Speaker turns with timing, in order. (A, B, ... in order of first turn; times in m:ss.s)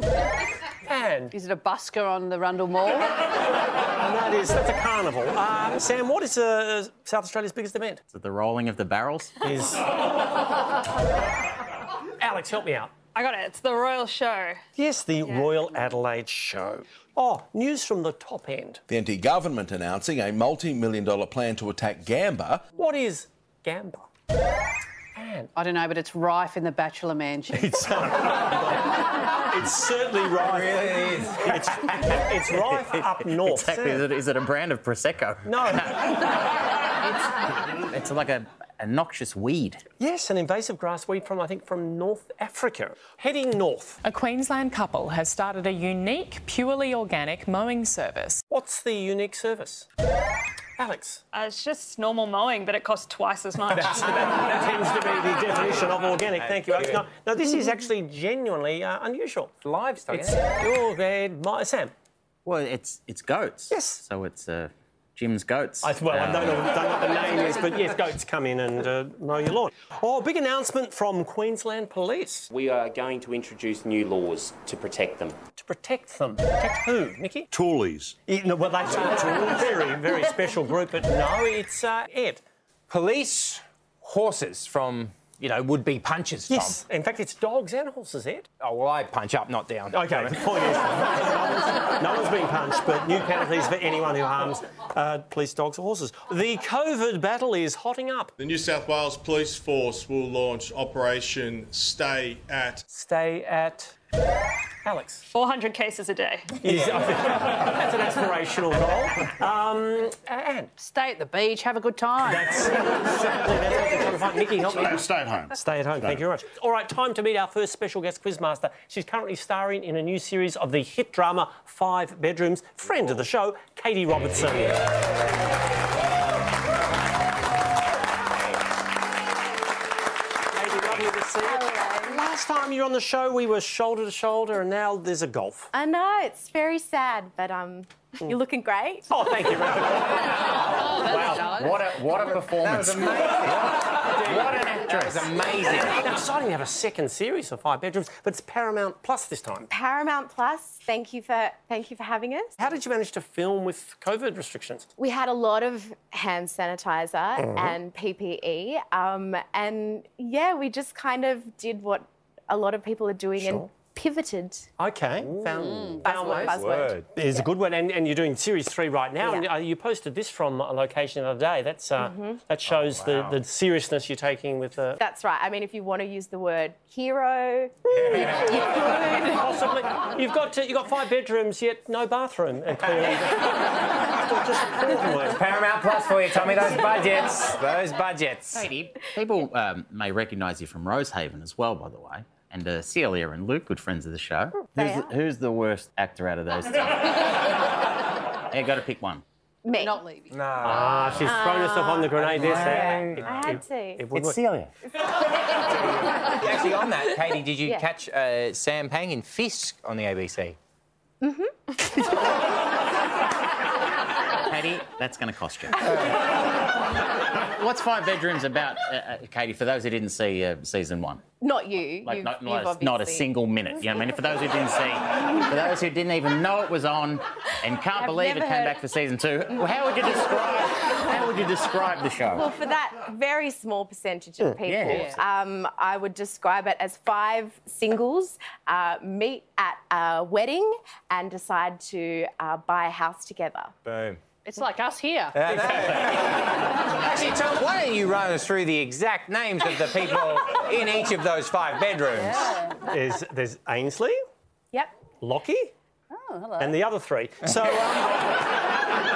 0:00.8-0:01.3 A
0:01.3-0:03.2 B
0:04.0-0:08.0 A
0:08.1-0:09.3 C
0:09.4-0:09.8 A
0:12.2-0:12.9 A
0:13.1-0:14.6 D
0:14.8-0:18.8 A
0:18.9-0:22.6 E
0:22.7-0:24.1 A
0:25.1-0:25.5 A
0:25.5-0:27.8 B
0:27.5-0:34.0 A
0:30.4-0:32.2 F
0:33.0-0:36.4 C
0:35.4-0:36.0 A
0:37.0-0:39.8 C
0:40.0-0:44.0 A
0:44.0-0:48.4 G
0:48.5-0:49.9 A
0:50.8-0:51.2 A
0:51.3-0:54.2 D
0:53.8-0:59.5 A
0:56.4-0:57.0 F
0:59.6-1:00.6 F
1:00.1-1:01.9 A
1:02.4-1:06.7 C
1:03.7-1:04.0 A
1:05.8-1:12.5 A
1:12.5-1:15.4 H
1:15.6-1:17.5 A
1:17.5-1:18.2 I
1:18.3-1:22.4 A
1:22.9-1:26.8 F
1:26.5-1:28.5 A
1:28.6-1:30.4 F
1:29.9-1:38.3 A
1:38.4-1:42.8 J
1:42.9-1:43.9 A
1:44.8-1:45.2 A
1:45.3-1:46.5 D
1:46.6-1:50.7 A
1:50.8-1:52.6 B
1:52.2-2:04.8 A
1:54.6-1:56.2 I
2:10.5-2:15.7 A
2:11.4-2:12.2 K
2:15.7-2:19.1 K
2:19.1-2:21.4 A
2:20.9-2:21.7 B
2:21.0-2:23.6 C
2:22.6-2:26.0 F
2:24.9-2:25.3 C
2:26.0-2:29.7 A
2:29.7-2:32.6 K
2:32.6-2:34.9 A
2:35.0-2:44.7 K
2:37.4-2:37.7 A
2:43.4-2:43.7 A
2:44.8-2:46.6 A
2:45.6-2:46.0 B
2:46.0-2:47.4 K
2:46.3-2:47.0 F
2:47.1-2:55.0 A
2:49.2-2:49.4 K
2:52.0-2:52.4 K
2:52.8-2:53.3 F
2:55.0-2:59.4 K
2:57.8-3:05.4 A
2:58.2-2:58.6 F
3:05.3-3:08.6 F
3:08.5-3:17.3 C
3:14.7-3:15.1 K
3:18.5-3:19.2 C
3:19.6-3:20.0 K
3:19.8-3:20.3 B
3:20.3-3:21.3 F
3:20.6-3:24.4 A
3:21.2-3:24.0 K
3:22.2-3:23.3 F
3:22.8-3:23.1 C
3:24.1-3:24.7 C
3:26.4-3:30.6 F
3:31.2-3:31.5 K
3:34.4-3:36.2 C
3:37.3-3:41.2 C
3:41.4-3:43.3 K
3:42.0-3:52.5 C
3:48.0-3:48.7 K
3:52.3-4:03.7 K
3:54.6-3:55.2 C
3:54.9-3:55.2 B
4:03.8-4:04.2 F
4:04.4-4:05.6 B
4:05.3-4:12.5 F
4:12.1-4:12.8 B
4:12.8-4:14.2 A
4:15.2-4:15.7 A
4:16.1-4:16.8 B
4:16.6-4:18.2 A